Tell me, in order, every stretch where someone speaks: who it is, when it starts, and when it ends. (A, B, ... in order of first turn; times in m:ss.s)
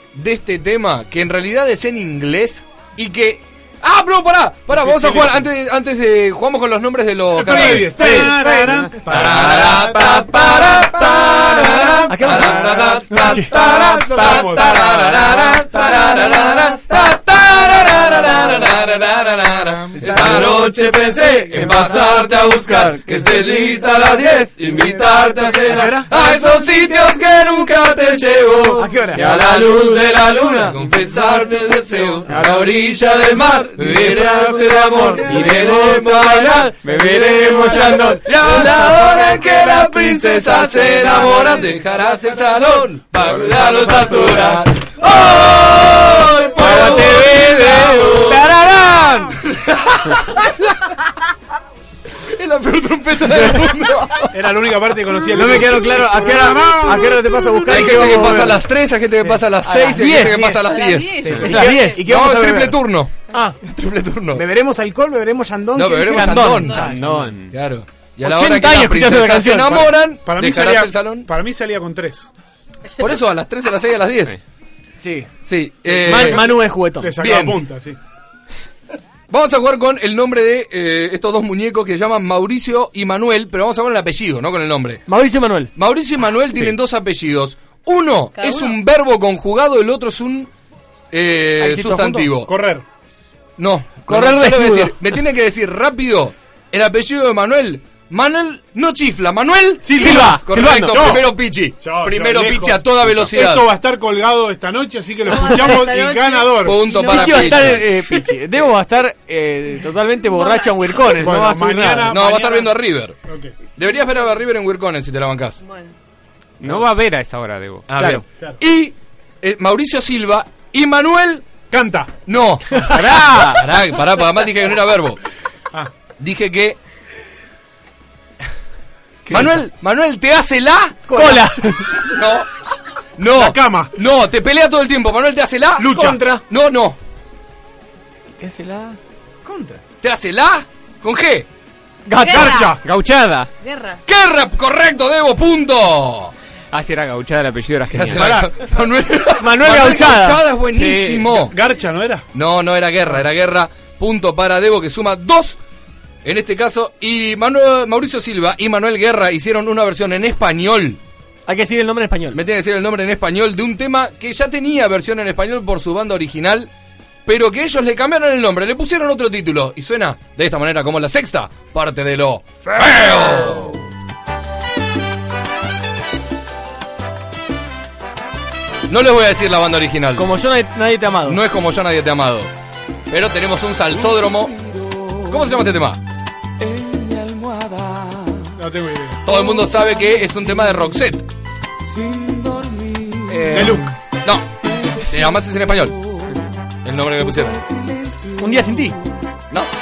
0:00.1-0:08.2 A
0:04.7-0:05.4 B
0:07.3-0:10.0 B
0:07.6-0:13.0 C
0:08.0-0:09.6 D
0:09.0-0:36.8 A
0:12.1-0:13.5 E
0:12.6-0:15.0 B
0:13.9-0:17.1 C
0:19.9-0:20.8 C
0:21.5-0:21.9 C
0:22.4-0:23.8 E
0:25.5-0:26.1 C
0:28.8-0:29.3 C
0:29.1-0:30.0 D
0:33.8-0:39.4 E
0:35.2-0:36.0 D
0:36.8-0:38.2 D
0:37.5-0:48.5 A
0:43.3-0:44.6 D
0:46.6-0:49.2 E
0:46.7-0:47.3 C
0:48.0-0:49.3 C
0:49.4-0:50.9 A
0:52.3-0:54.3 A
0:54.3-0:57.2 B
0:55.3-0:58.6 C
0:57.6-1:01.3 A
0:57.8-0:58.3 E
0:59.2-1:02.8 C
0:59.6-1:00.5 E
1:00.6-1:02.0 F
1:01.3-1:02.0 E
1:02.0-1:04.4 A
1:03.3-1:03.6 E
1:04.3-1:07.3 C
1:05.7-1:06.8 A
1:06.1-1:06.9 E
1:06.8-1:07.5 D
1:07.5-1:11.3 A
1:08.2-1:10.0 E
1:10.2-1:12.3 B
1:13.0-1:14.4 A
1:15.0-1:15.3 E
1:15.4-1:16.5 A
1:15.9-1:18.0 B
1:15.9-1:17.2 E
1:17.2-1:17.6 A
1:19.3-1:25.1 A
1:25.1-1:25.7 E
1:25.7-1:30.5 A
1:28.4-1:28.7 F
1:31.1-1:32.5 A
1:31.6-1:32.3 E
1:32.4-1:32.8 B
1:33.6-1:43.7 A
1:34.1-1:35.0 E
1:39.8-1:46.9 B
1:39.9-1:41.2 E
1:45.3-1:47.8 F
1:46.6-1:48.0 A
1:46.9-1:52.1 E
1:50.3-1:51.1 F
1:51.2-1:53.5 B
1:52.0-1:53.2 A
1:53.7-1:55.6 A
1:55.6-1:55.9 F
1:56.6-1:57.9 D
1:57.9-2:01.5 A
1:57.9-1:58.8 E
2:01.7-2:02.1 B
2:02.3-2:05.2 A
2:02.9-2:03.7 D
2:06.2-2:06.8 A
2:09.3-2:11.0 A
2:11.1-2:12.0 C
2:11.1-2:11.9 E
2:12.0-2:12.5 A
2:13.2-2:15.9 A
2:13.3-2:13.9 B
2:15.8-2:16.4 C
2:15.8-2:16.2 B
2:16.5-2:17.0 A
2:18.4-2:19.0 E
2:19.4-2:19.8 C
2:20.0-2:21.5 A
2:22.0-2:22.7 E
2:22.1-2:22.8 F
2:22.3-2:22.8 B
2:22.3-2:23.5 D
2:23.6-2:24.0 F
2:24.0-2:26.3 A
2:26.7-2:28.4 D
2:27.9-2:31.5 A
2:28.1-2:28.6 B
2:29.4-2:30.4 E
2:30.7-2:31.3 D
2:31.3-2:32.2 B
2:32.3-2:35.6 A
2:36.2-2:41.0 A
2:41.5-2:42.4 E
2:42.3-2:46.7 A
2:47.2-2:53.8 A
2:58.9-3:00.3 A
3:00.2-3:01.4 E
3:01.2-3:02.5 A
3:03.1-3:04.5 A
3:05.2-3:06.0 A
3:08.6-3:09.2 B
3:09.2-3:11.2 A
3:13.3-3:13.9 E
3:13.5-3:13.9 B
3:14.2-3:16.0 A
3:16.8-3:17.6 A
3:18.4-3:19.0 E